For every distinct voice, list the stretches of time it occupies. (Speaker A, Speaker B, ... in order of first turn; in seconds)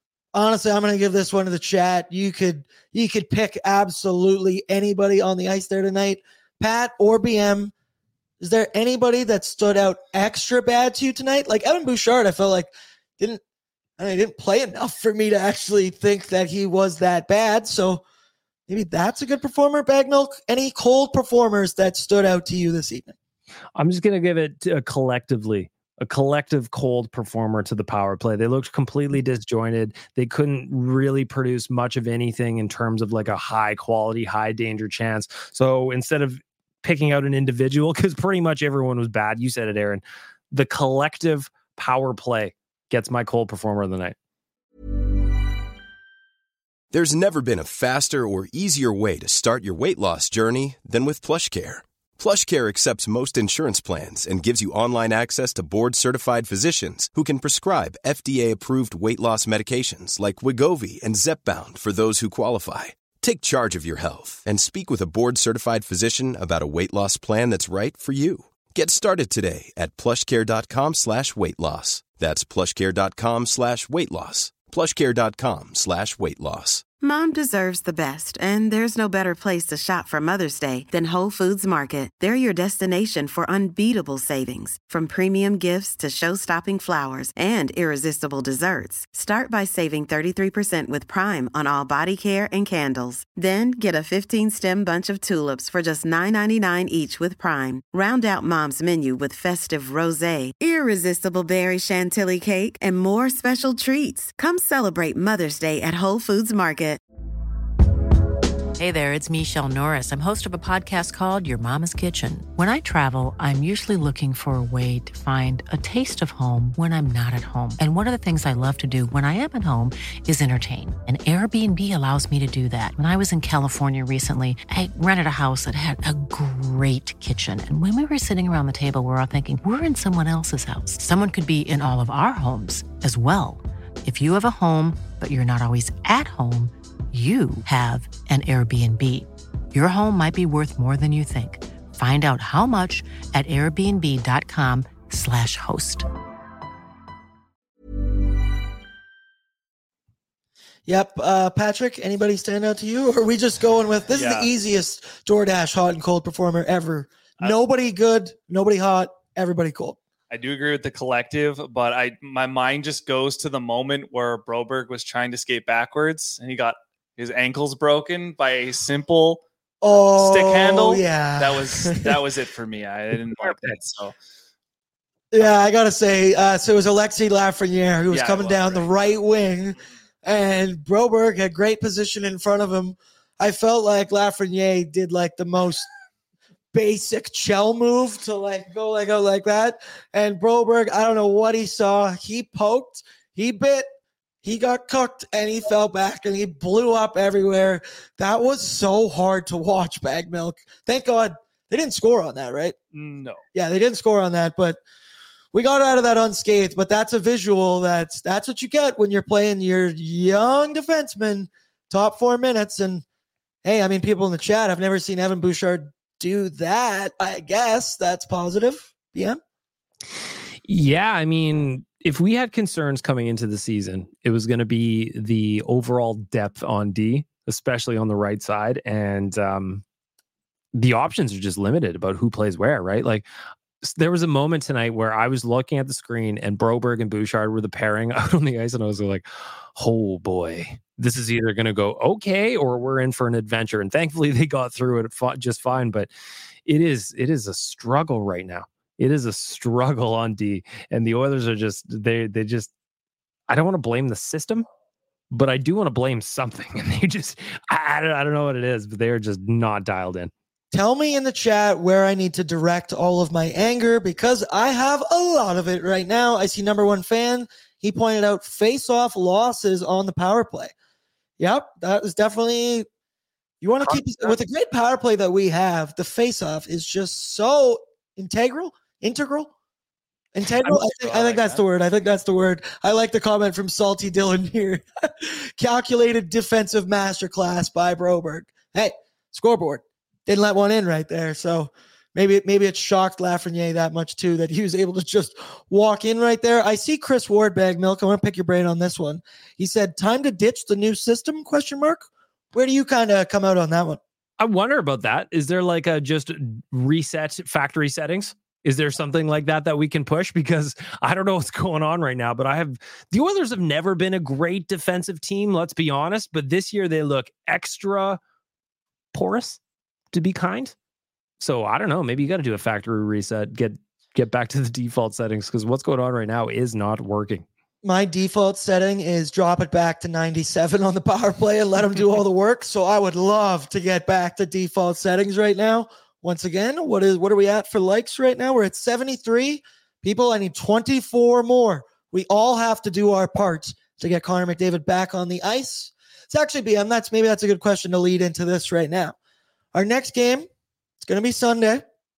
Speaker A: 0.3-7.7, 8.4-13.4, 14.0-18.0, 18.7-23.1, 150.8-160.0, 169.8-172.2, 175.3-185.9, 186.7-193.8, 194.4-202.8, 203.5-204.8, 205.5-213.0, 213.6-219.4, 260.7-270.7, 271.4-272.9, 273.6-279.5, 280.3-304.0, 327.8-349.1, 349.7-350.5, 351.0-351.9
Speaker B: 23.8-44.1, 173.4-173.8, 220.7-229.8, 230.7-233.2, 233.8-246.1, 246.7-252.7, 253.5-254.7, 255.3-260.3, 304.4-318.2, 319.1-319.6, 320.1-320.7, 321.4-327.4
Speaker C: 46.9-76.8
Speaker D: 77.0-107.0
Speaker E: 108.8-146.1
Speaker F: 154.1-154.5, 160.3-169.4, 170.1-174.1, 178.1-178.9, 202.9-203.4, 280.6-281.6